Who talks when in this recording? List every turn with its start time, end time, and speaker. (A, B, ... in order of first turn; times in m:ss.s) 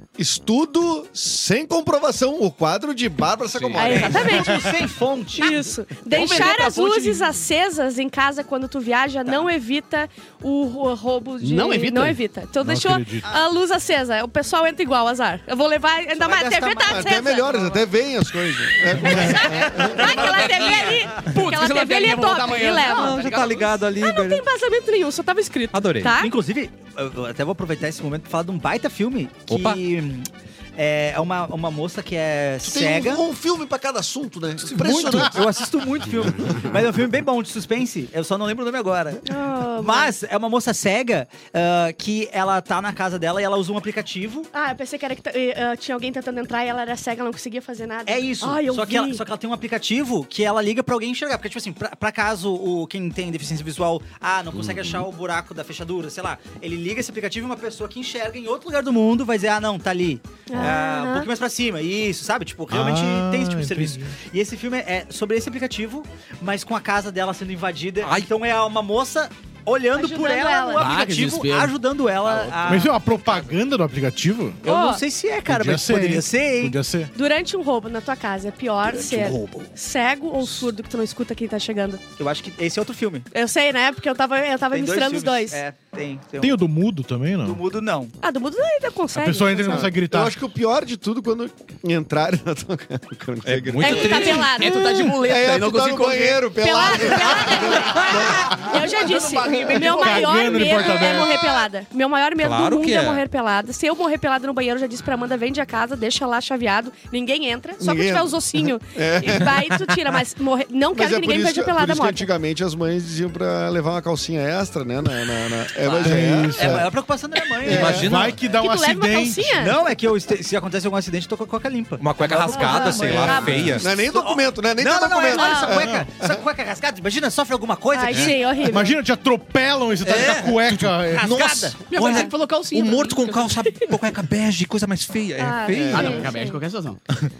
0:00.2-0:04.5 A
0:03.6-0:04.0 B
0:03.7-0:04.7 C
0:03.8-0:05.6 D
0:05.3-0:17.6 C
0:06.1-0:07.4 B
0:11.4-0:12.2 B
0:12.6-0:13.3 E
0:16.2-0:17.9 D
0:16.8-0:20.1 A
0:19.0-0:23.4 C
0:19.3-0:23.6 B
0:19.4-0:20.9 D
0:22.8-0:24.4 F
0:23.1-0:23.7 D
0:24.0-0:26.3 C
0:25.7-0:26.2 F
0:26.2-0:33.2 D
0:29.5-0:29.8 F
0:32.6-0:35.6 A
0:34.7-0:44.5 D
0:35.0-0:35.2 E
0:39.3-0:40.1 C
0:44.5-0:49.2 C
0:48.1-1:13.5 D
1:00.5-1:01.3 C
1:02.7-1:04.2 E
1:08.0-1:08.3 F
1:10.0-1:10.9 C
1:10.8-1:12.9 B
1:12.7-1:14.6 E
1:14.6-1:15.0 C
1:14.6-1:16.8 D
1:15.5-1:17.1 E
1:17.1-1:22.0 C
1:18.8-1:19.7 D
1:22.2-1:23.3 D
1:23.3-1:25.6 C
1:24.7-1:26.7 D
1:26.4-1:27.6 E
1:27.4-1:28.1 D
1:28.2-1:30.0 C
1:29.2-1:30.4 E
1:29.7-1:34.2 A
1:33.4-1:34.5 F
1:33.8-1:35.1 C
1:33.8-1:36.6 B
1:35.0-1:38.8 A
1:36.6-1:52.3 C
1:38.1-1:41.1 B
1:39.9-1:41.5 E
1:42.4-1:43.2 F
1:47.8-1:49.9 A
1:50.9-1:56.9 A
1:55.8-1:58.1 D
1:56.0-1:56.9 E
1:57.6-1:58.1 A
1:57.6-1:58.5 F
1:58.0-1:59.5 E
1:58.5-1:59.8 C
1:59.6-2:08.4 D
2:02.0-2:03.9 F
2:02.5-2:03.8 C
2:03.8-2:06.3 A
2:05.2-2:05.9 C
2:07.9-2:09.0 C
2:08.7-2:11.3 E
2:10.0-2:16.3 F
2:11.0-2:11.8 D
2:11.9-2:13.6 B
2:12.0-2:12.3 C
2:15.4-2:16.6 C
2:15.7-2:16.2 A
2:15.9-2:17.0 B